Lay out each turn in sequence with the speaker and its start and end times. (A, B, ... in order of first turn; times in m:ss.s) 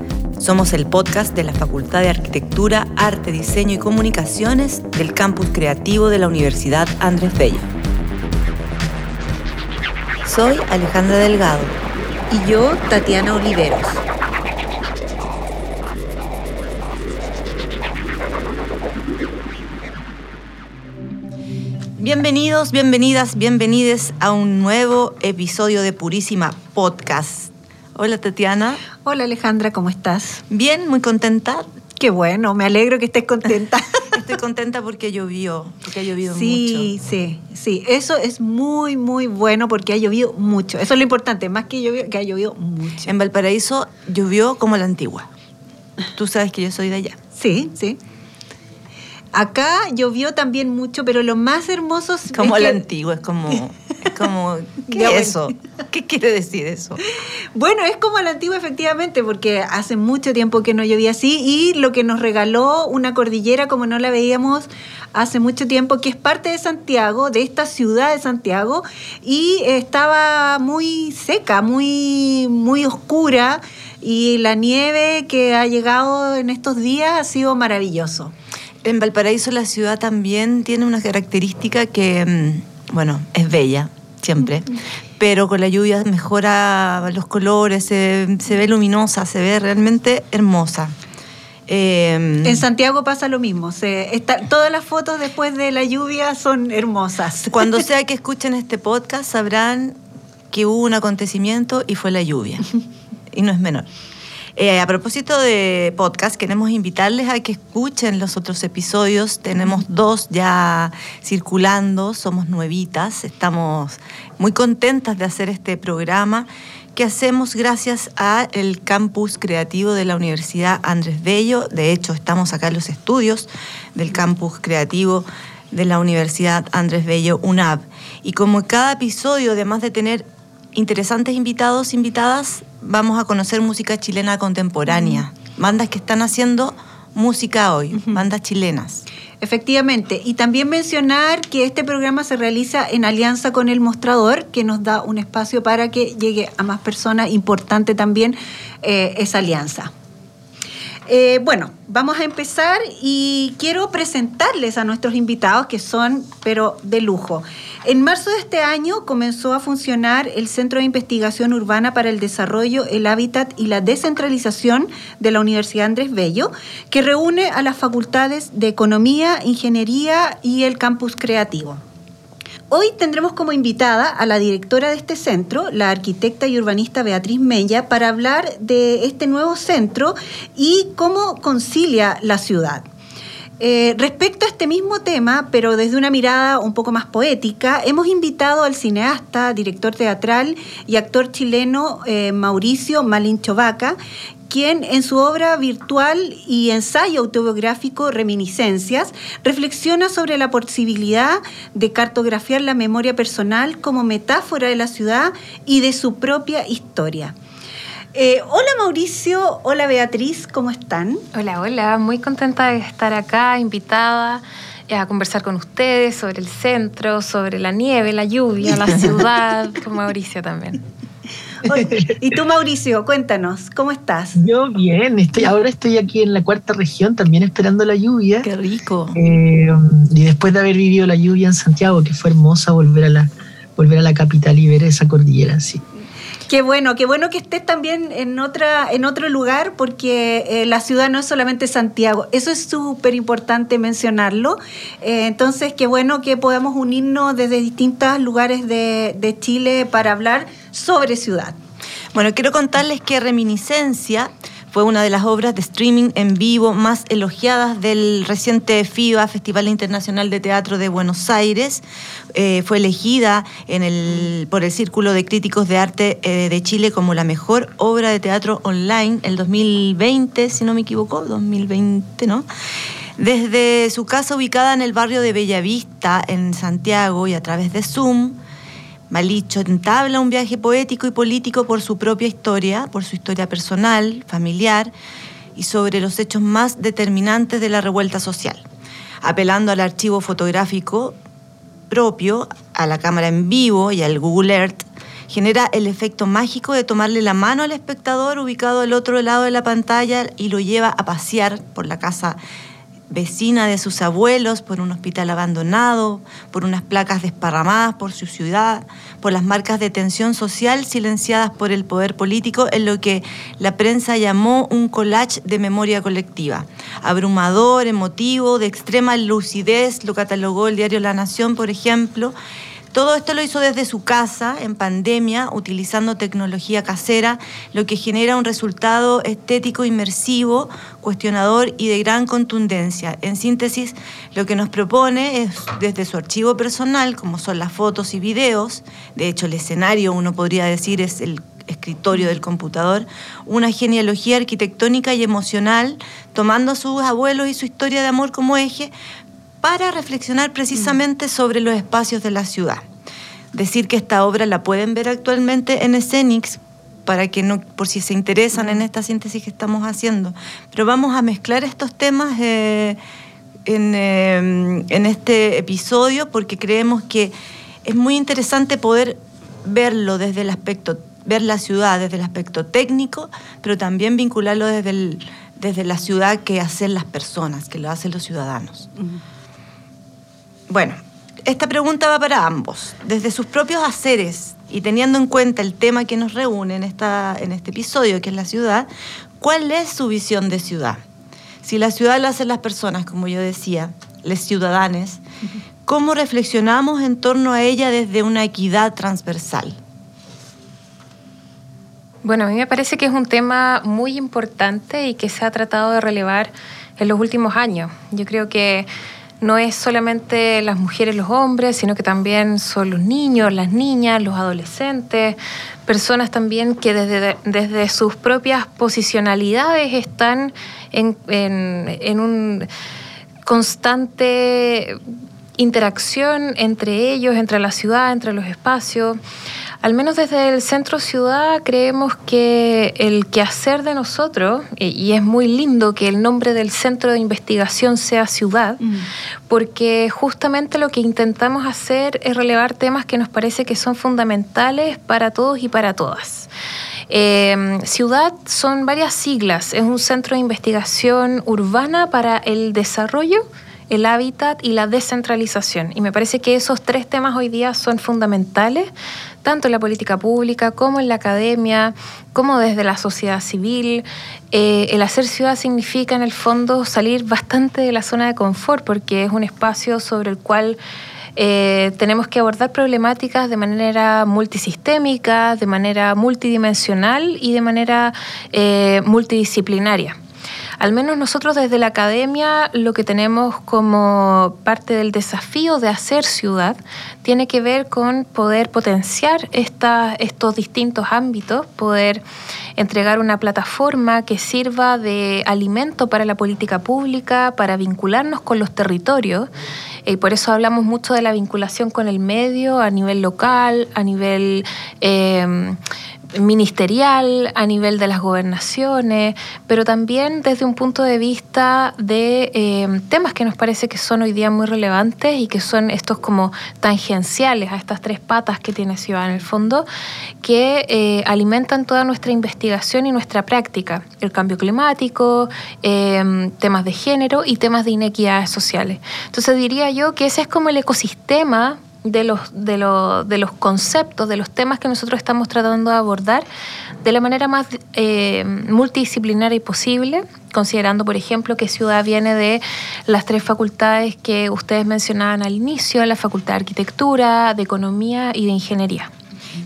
0:00.4-0:07.7 A
0:10.2-0:11.8 A
0:12.3-0:14.0 B
0:22.0-0:28.8 A
0:29.0-0:30.4 B
0:30.5-0:31.6 A
0:32.0-0:34.0 B
0:34.1-0:36.9 A
0:36.3-0:43.1 B
0:43.0-0:45.3 A
0:46.1-0:47.2 A
0:47.4-0:48.0 B
0:49.3-0:52.8 B
0:52.3-0:57.0 A
0:54.9-0:55.5 B
0:57.5-1:18.3 B
1:18.8-1:30.9 A
1:31.7-1:32.6 A
1:32.4-1:37.8 B
1:37.5-1:40.0 A
1:40.5-1:42.8 A
1:43.3-1:43.9 A
1:44.6-2:19.0 A
2:14.9-2:15.2 B
2:19.4-2:29.9 B
2:31.0-2:51.8 B
2:52.7-3:02.8 B
3:03.6-3:14.0 B
3:14.5-3:27.3 B
3:28.1-3:31.2 B
3:31.3-3:40.8 C
3:41.6-3:42.1 D
3:41.7-3:44.4 B
3:44.4-3:48.5 D
3:48.4-3:49.2 A
3:49.1-3:55.8 D
3:56.5-4:11.6 B
4:12.1-4:21.8 A
4:22.3-4:32.4 A
4:33.2-4:38.4 A
4:39.1-4:44.9 A
4:45.6-4:48.6 A
4:49.2-4:51.2 A
4:51.9-5:02.4 A
5:03.1-5:22.3 A
5:22.9-5:48.9 A
5:49.6-5:52.8 A
5:53.5-6:03.0 A
6:03.6-6:07.3 A
6:07.8-6:18.9 A
6:20.7-6:31.0 A
6:31.6-6:35.2 A
6:35.8-6:39.8 A
6:42.2-6:48.9 C
6:49.4-7:02.7 C
7:03.4-7:05.0 C
7:05.6-7:09.2 C
7:09.8-7:18.8 C
7:19.5-7:26.5 C
7:27.1-7:38.9 C
7:39.4-7:50.8 C
7:51.4-8:00.2 C
8:00.8-8:12.2 C
8:12.8-8:19.5 C
8:20.0-8:25.8 C
8:26.3-8:39.8 C
8:40.4-8:56.4 C
8:57.0-9:09.1 C